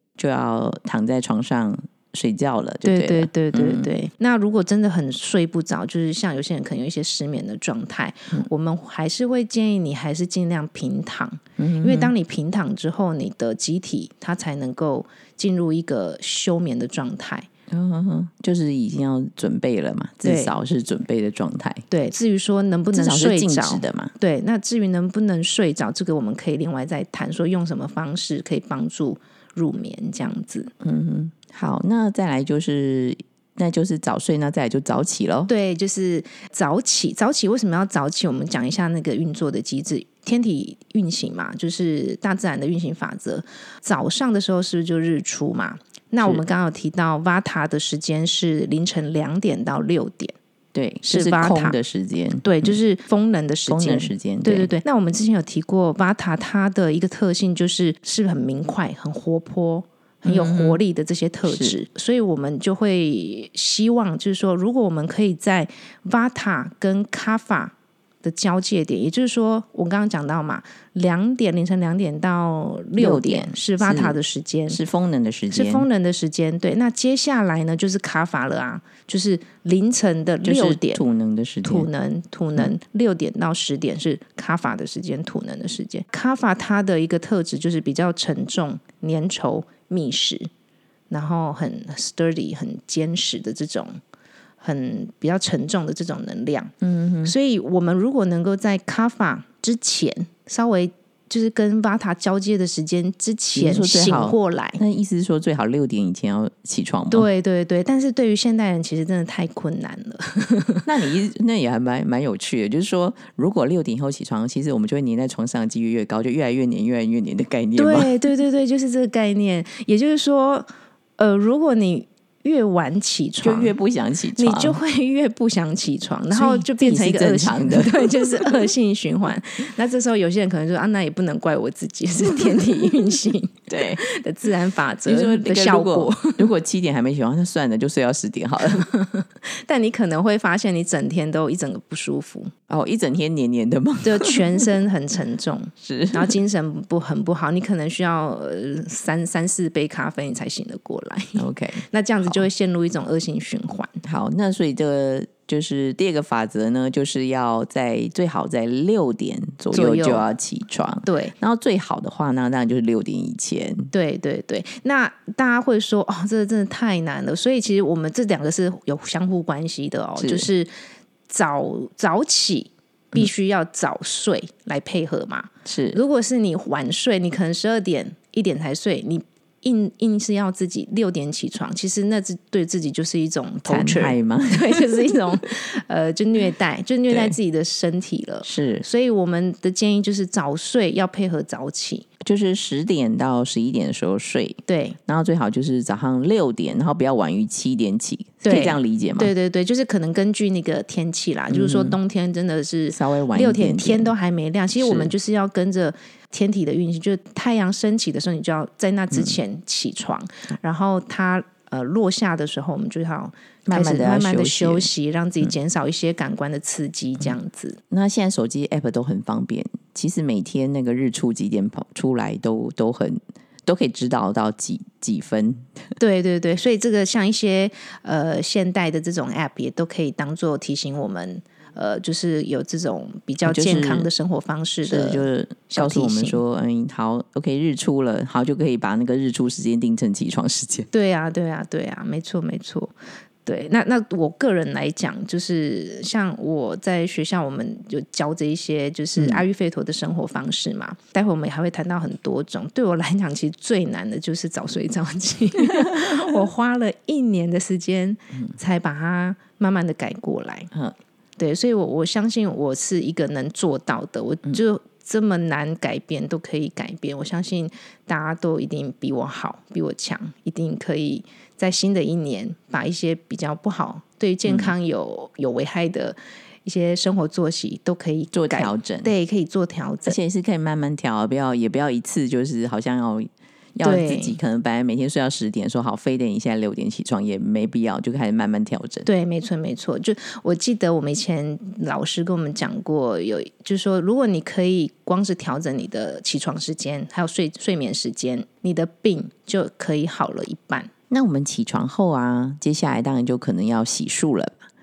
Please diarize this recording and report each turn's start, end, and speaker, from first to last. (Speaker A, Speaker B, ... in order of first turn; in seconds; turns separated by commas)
Speaker A: 0.2-3.9, Speaker B: 2.8-17.5, Speaker A: 11.6-12.1, Speaker A: 17.7-21.9, Speaker B: 20.2-20.5, Speaker B: 21.9-30.7, Speaker A: 22.9-24.1, Speaker A: 30.8-35.5, Speaker B: 35.5-50.4, Speaker A: 50.7-52.8, Speaker B: 51.0-51.8, Speaker B: 52.4-74.8, Speaker A: 53.7-54.7, Speaker A: 60.2-60.8, Speaker A: 61.5-61.8, Speaker A: 73.0-74.2, Speaker A: 74.7-75.9, Speaker B: 75.5-81.0, Speaker A: 80.4-81.9, Speaker B: 81.6-90.5, Speaker B: 91.1-94.0, Speaker B: 94.6-96.7, Speaker A: 96.8-97.3, Speaker B: 97.2-104.8, Speaker A: 103.5-107.3, Speaker B: 107.1-110.9, Speaker A: 110.9-118.2, Speaker B: 117.8-120.7, Speaker B: 121.2-123.8, Speaker A: 123.4-124.8, Speaker B: 124.4-136.5, Speaker A: 126.3-128.5, Speaker A: 133.7-134.0, Speaker A: 135.1-138.9, Speaker B: 138.6-142.5, Speaker A: 142.7-144.7, Speaker B: 144.0-154.0, Speaker A: 145.8-146.4, Speaker A: 151.4-151.8, Speaker A: 154.0-163.9, Speaker B: 159.7-160.2, Speaker B: 161.1-161.3, Speaker B: 163.9-170.7, Speaker A: 170.2-170.5, Speaker B: 171.3-192.1, Speaker A: 175.7-176.0, Speaker A: 183.7-185.1, Speaker A: 187.1-187.4, Speaker A: 188.4-188.8, Speaker A: 192.2-199.3, Speaker B: 194.7-195.0, Speaker B: 198.4-217.8, Speaker A: 201.5-202.0, Speaker A: 202.9-204.1, Speaker A: 204.8-205.1, Speaker A: 213.7-214.9, Speaker A: 217.9-225.8, Speaker B: 226.0-236.4, Speaker A: 233.4-234.1, Speaker A: 234.9-240.9, Speaker B: 240.9-242.9, Speaker B: 243.4-260.7, Speaker A: 249.2-249.4, Speaker A: 255.8-256.3, Speaker B: 261.4-280.2, Speaker A: 274.5-274.7, Speaker A: 278.3-279.1, Speaker A: 280.1-289.1, Speaker B: 283.8-284.4, Speaker B: 289.1-300.9, Speaker A: 301.1-304.6